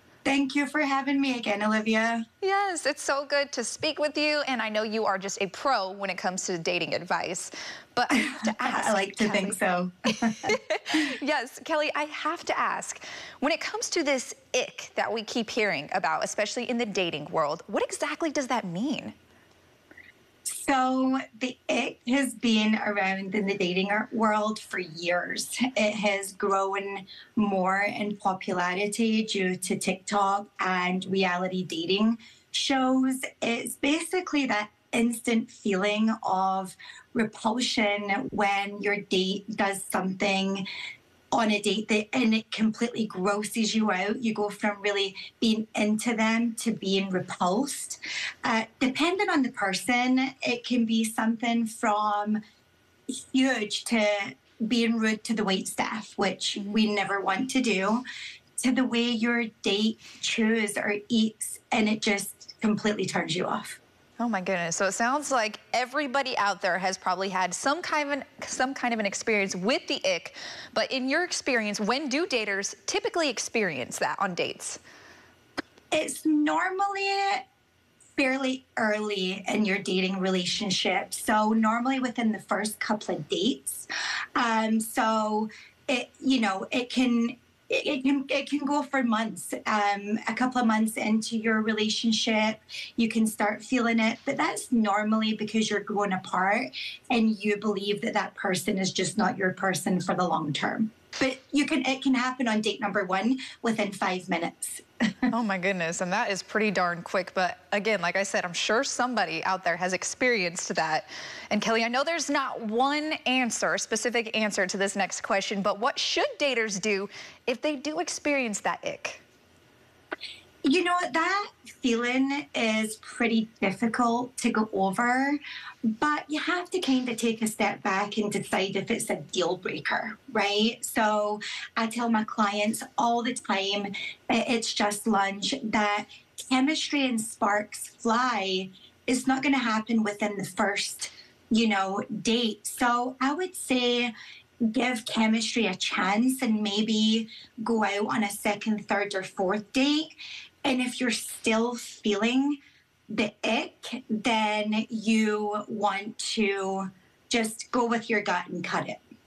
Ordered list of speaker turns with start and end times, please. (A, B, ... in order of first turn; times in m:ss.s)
0:00.2-0:02.2 A
0:02.4-0:09.6 B
0:08.1-0:10.5 A
0:10.2-0:19.1 B
0:20.4-0:40.6 A
0:41.3-0:52.4 A
0:53.1-0:58.0 A
0:56.6-0:56.8 B
0:58.6-1:03.8 A
1:04.2-1:14.8 B
1:15.9-1:17.4 A
1:18.2-1:44.8 A
1:45.3-1:59.2 B
2:00.6-2:05.4 A
2:06.0-2:24.1 A
2:24.6-2:30.1 A
2:30.6-2:39.0 A